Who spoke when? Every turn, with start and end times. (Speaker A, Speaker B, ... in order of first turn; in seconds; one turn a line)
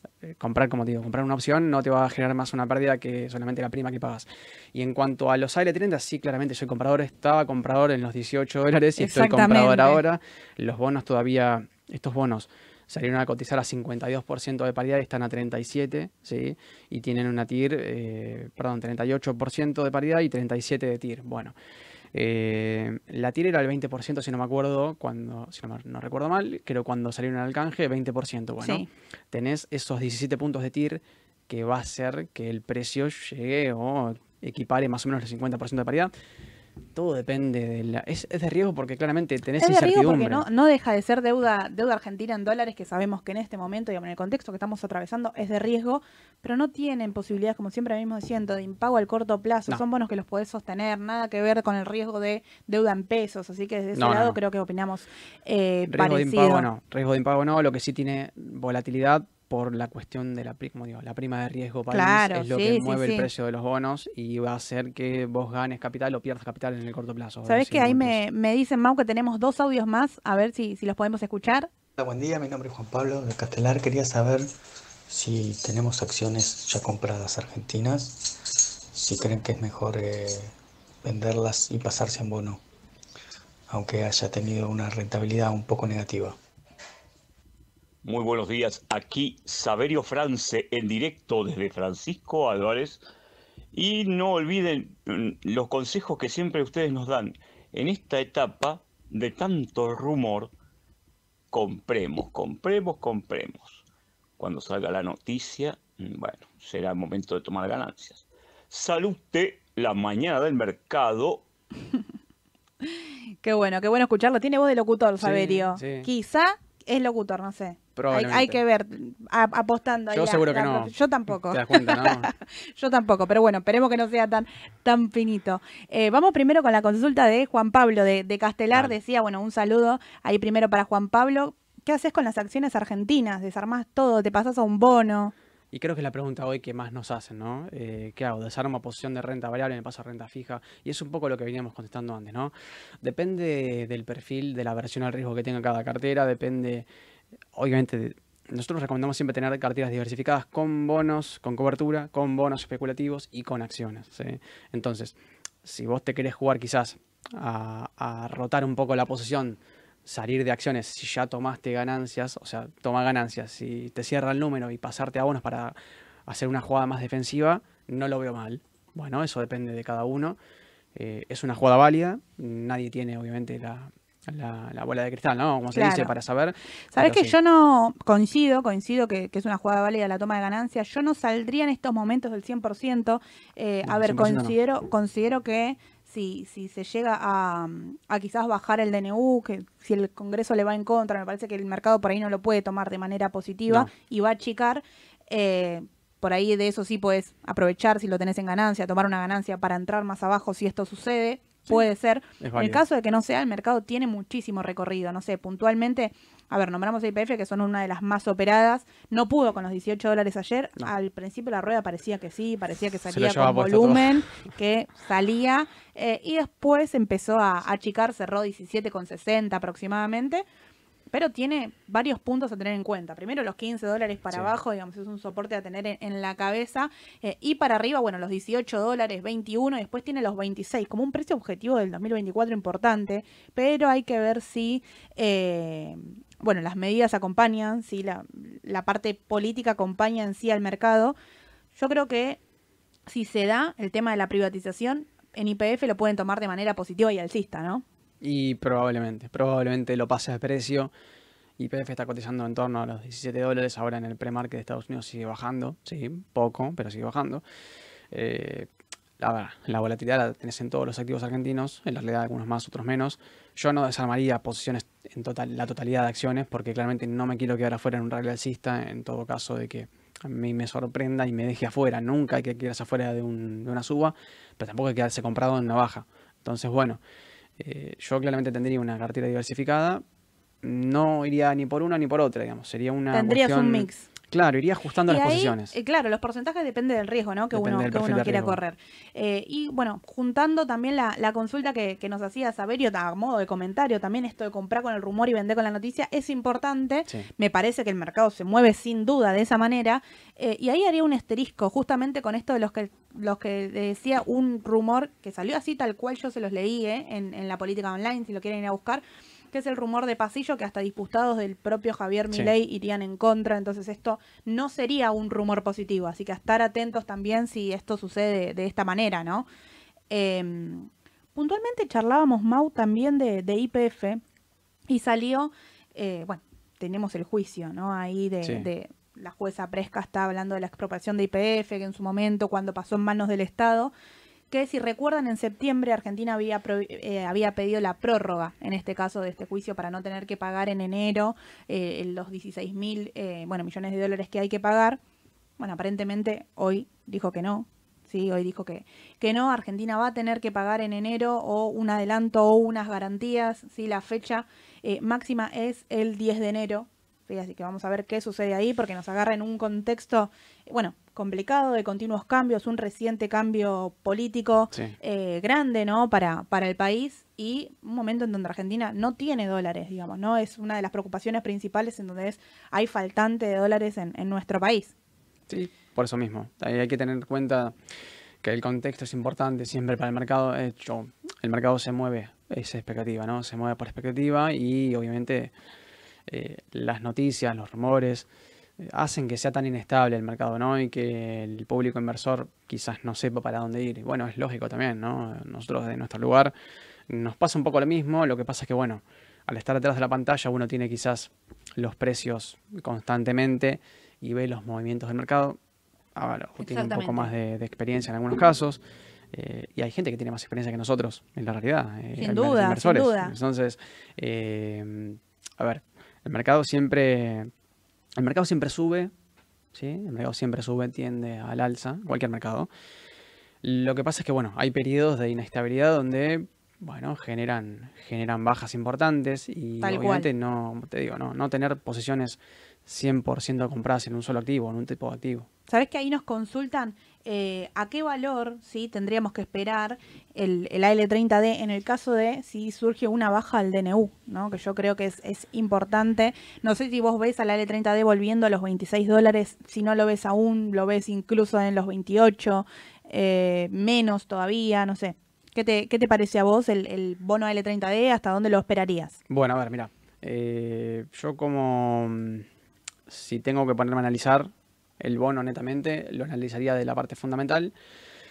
Speaker A: 0.2-21.5
Speaker B: 9.0-10.0
Speaker A: 22.1-36.1
Speaker B: 28.6-28.9
Speaker A: 37.0-40.5
Speaker B: 39.6-56.7
Speaker A: 54.0-54.4
Speaker A: 55.9-68.2
Speaker B: 61.9-63.3
Speaker B: 67.5-71.7
Speaker C: 72.0-74.5
Speaker C: 75.1-80.5
Speaker C: 81.0-82.6
Speaker C: 83.7-86.4
Speaker D: 88.0-93.0
Speaker D: 93.7-100.5
Speaker D: 101.5-103.8
Speaker D: 104.4-111.4
Speaker B: 112.8-135.3
Speaker A: 115.2-116.1
Speaker A: 118.0-118.6
Speaker A: 120.1-122.3
Speaker A: 135.7-146.9
Speaker A: 147.5-165.8
Speaker A: 166.3-170.4
Speaker A: 170.9-177.3
Speaker B: 175.7-176.1
Speaker B: 176.9-220.4
Speaker A: 183.8-184.6
Speaker A: 202.4-202.8
Speaker A: 213.1-214.3
Speaker B: 221.1-241.2
Speaker B: 241.8-242.4
Speaker B: 243.1-247.8
Speaker A: 248.2-250.9
Speaker A: 251.6-257.4
Speaker A: 258.1-277.0
Speaker A: 277.6-280.0
Speaker A: 280.6-285.7
Speaker B: 283.1-284.1
Speaker B: 285.1-319.5
Speaker A: 287.5-288.6
Speaker B: 320.1-324.2
Speaker B: 324.9-333.9
Speaker A: 328.4-328.7
Speaker B: 334.5-345.0
Speaker B: 345.6-374.9
Speaker A: 375.5-377.8
Speaker A: 378.4-385.5
Speaker A: 386.3-388.3
Speaker A: 388.8-396.5
Speaker A: 397.1-405.6
Speaker A: 406.1-408.8
Speaker B: 406.6-407.3
Speaker A: 409.3-417.5
Speaker B: 412.2-413.3
Speaker A: 418.2-419.1
Speaker A: 419.7-422.7
Speaker A: 423.6-435.5
Speaker B: 429.8-430.3
Speaker B: 435.7-459.2
Speaker A: 459.3-462.5
Speaker A: 463.1-467.7